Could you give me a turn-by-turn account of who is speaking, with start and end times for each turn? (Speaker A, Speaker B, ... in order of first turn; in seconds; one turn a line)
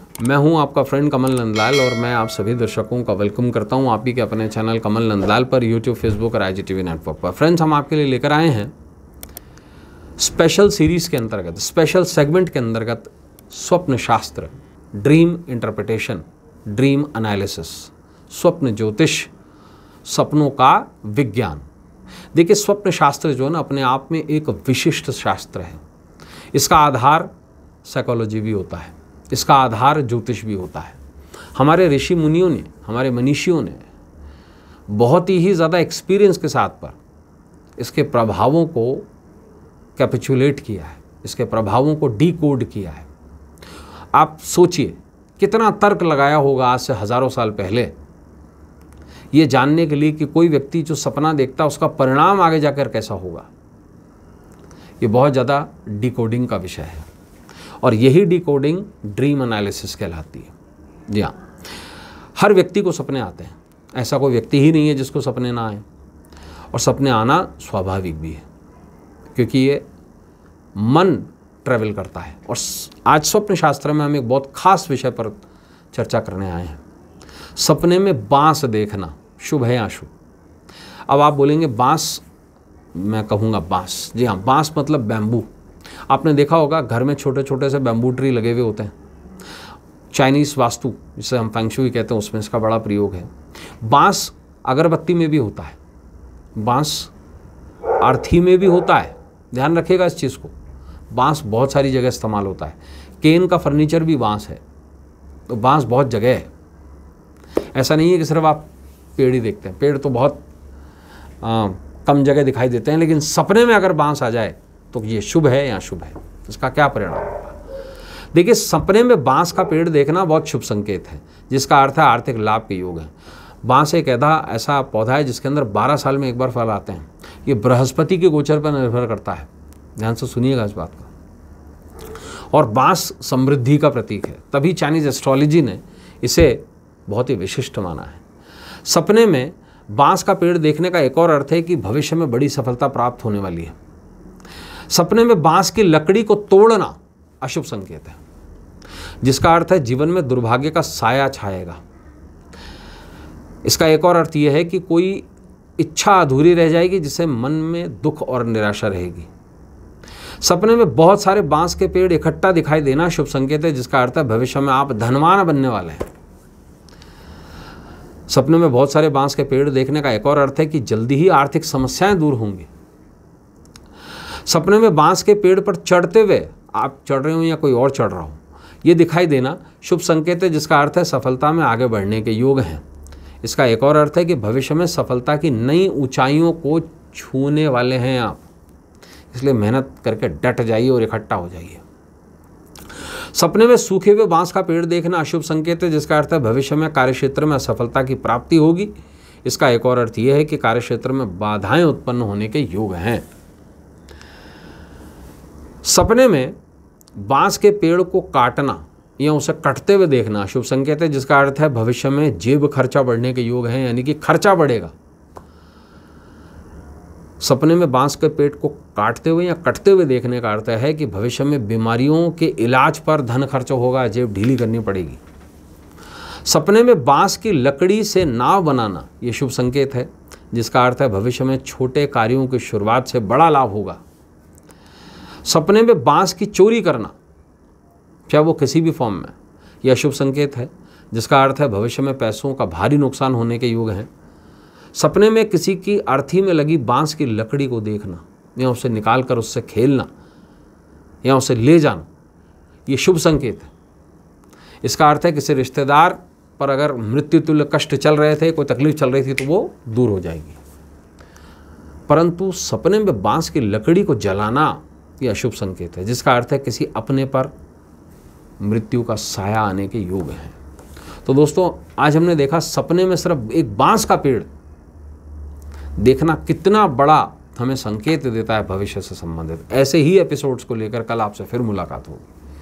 Speaker A: 0.2-8.7
Speaker A: 10.2-19.3
Speaker A: 20.1-21.6
Speaker A: 22.3-25.8
Speaker A: 26.5-27.3
Speaker A: 27.8-31.0
Speaker A: 31.5-33.9
Speaker A: 34.9-37.0
Speaker A: 37.8-39.1
Speaker A: 40.0-43.1
Speaker A: 44.1-47.9
Speaker A: 49.3-53.5
Speaker A: 55.0-57.1
Speaker A: 57.8-60.5
Speaker A: 61.1-61.4
Speaker A: 62.4-65.8
Speaker A: 66.7-68.4
Speaker A: 69.3-69.8
Speaker A: 70.8-76.8
Speaker A: 77.6-80.1
Speaker A: 81.1-82.2
Speaker A: 82.9-85.5
Speaker A: 86.1-88.9
Speaker A: 90.1-95.8
Speaker A: 96.6-97.1
Speaker A: 98.0-100.5
Speaker A: 101.1-104.6
Speaker A: 105.5-106.5
Speaker A: 107.7-110.4
Speaker A: 111.4-117.6
Speaker A: 118.3-131.1
Speaker A: 132.5-138.2
Speaker A: 138.8-143.8
Speaker A: 144.9-148.2
Speaker A: 149.2-151.8
Speaker A: 153.6-155.3
Speaker A: 155.8-159.3
Speaker A: 160.4-166.1
Speaker A: 168.3-172.7
Speaker A: 174.4-182.8
Speaker A: 183.4-188.5
Speaker A: 189.3-191.8
Speaker A: 193.0-198.9
Speaker A: 199.4-203.3
Speaker A: 205.8-206.6
Speaker A: 207.2-214.9
Speaker A: 217.4-225.2
Speaker A: 226.4-234.0
Speaker A: 235.4-237.2
Speaker A: 238.3-244.1
Speaker A: 244.9-250.1
Speaker A: 251.2-252.1
Speaker A: 252.9-253.7
Speaker A: 254.8-260.6
Speaker A: 262.1-267.5
Speaker A: 268.6-270.6
Speaker A: 271.2-274.5
Speaker A: 276.0-282.3